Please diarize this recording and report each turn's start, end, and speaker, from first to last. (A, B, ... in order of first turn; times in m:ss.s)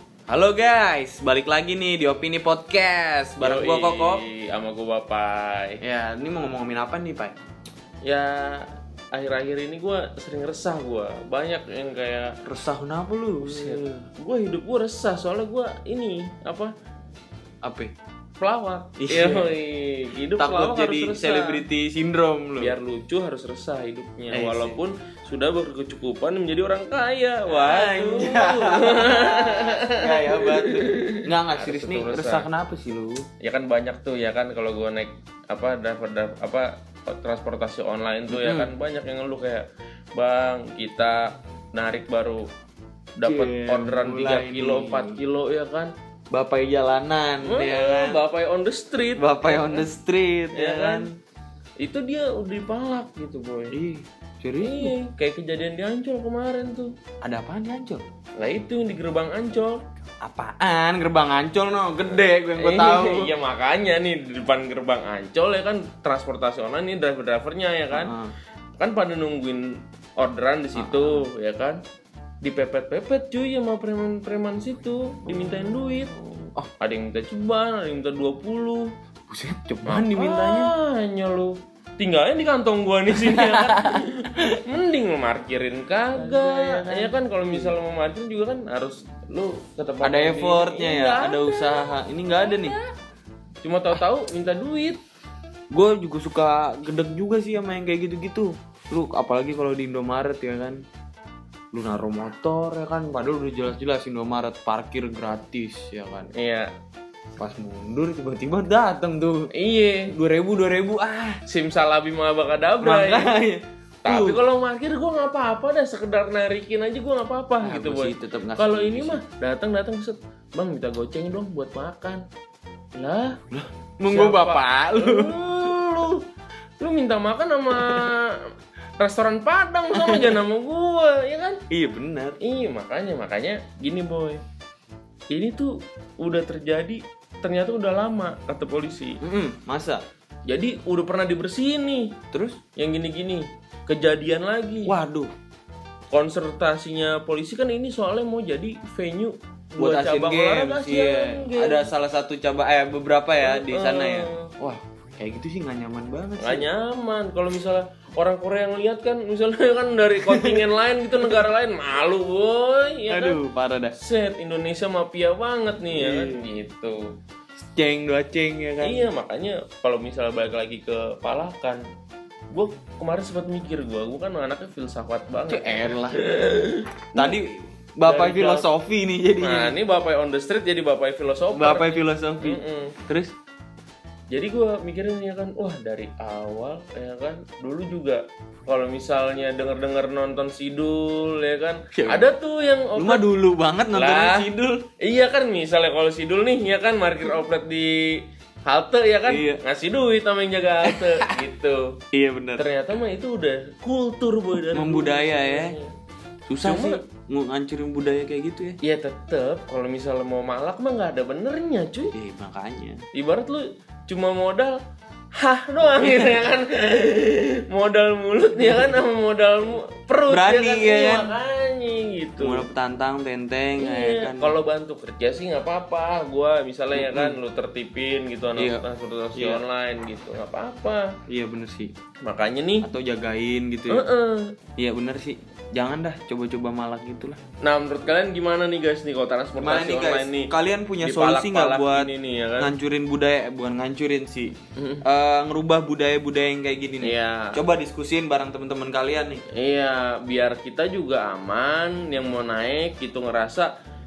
0:00.3-0:04.2 A
0:03.4-0:05.8 B
0:05.8-0:07.4 A
0:08.0-0:12.4 B
0:12.5-0:14.0 A
0:13.4-0:16.7 B
0:17.6-0:17.9 A
0:18.4-0:21.6 B
0:19.0-0:19.5 A
0:20.4-0:22.8 A
0:22.6-0:32.5 B
0:24.3-0:24.8 A
0:27.5-0:33.2 A
0:33.4-0:42.5 B
0:38.3-0:38.7 A
0:43.2-0:45.9 B
0:43.2-0:45.2 A
0:46.3-0:48.2 A
0:47.4-0:49.9 B
0:49.2-0:51.1 A
0:50.5-0:51.1 B
0:51.8-0:53.8 B
0:53.7-0:55.0 A
0:54.6-0:56.9 B
0:57.2-0:58.0 A
0:58.4-0:59.8 B
1:00.2-1:03.4 A
1:02.1-1:08.1 B
1:07.9-1:08.3 A
1:08.8-1:11.8 B
1:10.8-1:11.2 A
1:12.4-1:16.1 B
1:16.8-1:18.9 B
1:19.3-1:20.7 A
1:19.9-1:32.8 B
1:23.1-1:24.0 A
1:26.1-1:27.8 A
1:30.0-1:32.8 A
1:33.6-1:35.0 B
1:35.7-1:40.8 A
1:41.7-1:46.3 A
1:46.4-1:46.7 B
1:47.4-1:49.5 A
1:49.5-1:50.1 B
1:50.1-1:51.4 A
1:51.5-1:53.3 B
1:52.8-1:54.4 A
1:54.0-2:02.2 B
1:57.6-1:59.2 A
2:03.0-2:03.4 B
2:03.5-2:05.4 A
2:04.1-2:06.2 B
2:06.8-2:08.4 B
2:07.7-2:08.0 A
2:09.0-2:11.6 B
2:09.9-2:10.4 A
2:11.7-2:12.4 A
2:12.4-2:14.4 B
2:15.3-2:19.2 B
2:19.2-2:20.0 A
2:20.5-2:22.2 B
2:22.3-2:22.6 A
2:22.8-2:24.9 B
2:24.9-2:25.3 A
2:26.1-2:31.9 B
2:29.8-2:36.7 A
2:33.4-2:34.5 B
2:36.4-2:43.4 B
2:40.2-2:40.6 A
2:43.1-2:44.0 A
2:44.0-2:47.0 B
2:45.9-2:46.5 A
2:47.6-2:49.1 A
2:48.8-2:51.8 B
2:52.5-2:57.4 B
2:55.5-2:56.3 A
2:57.1-2:59.8 A
2:58.0-2:58.7 B
2:59.4-3:03.0 B
3:01.5-3:03.3 A
3:04.3-3:13.2 B
3:11.9-3:12.3 A
3:13.0-3:14.8 A
3:13.9-3:14.5 B
3:15.0-3:22.0 B
3:19.3-3:19.6 A
3:20.9-3:21.4 A
3:22.1-3:22.7 A
3:22.6-3:25.9 B
3:24.6-3:25.7 A
3:26.5-3:28.8 A
3:26.6-3:27.0 B
3:28.8-3:32.1 B
3:32.1-3:33.0 A
3:33.1-3:34.8 B
3:35.4-3:42.7 B
3:40.3-3:41.3 A
3:42.4-3:44.6 A
3:43.8-3:51.1 B
3:46.9-3:47.4 A
3:48.6-3:48.8 A
3:49.4-3:49.6 A
3:51.3-3:51.9 A
3:52.2-3:52.9 B
3:52.8-3:54.1 A
3:53.9-3:54.5 B
3:54.8-3:57.4 A
3:57.6-4:02.7 B
3:59.6-4:09.4 A
4:04.8-4:05.0 B
4:07.0-4:07.6 B
4:09.5-4:13.7 B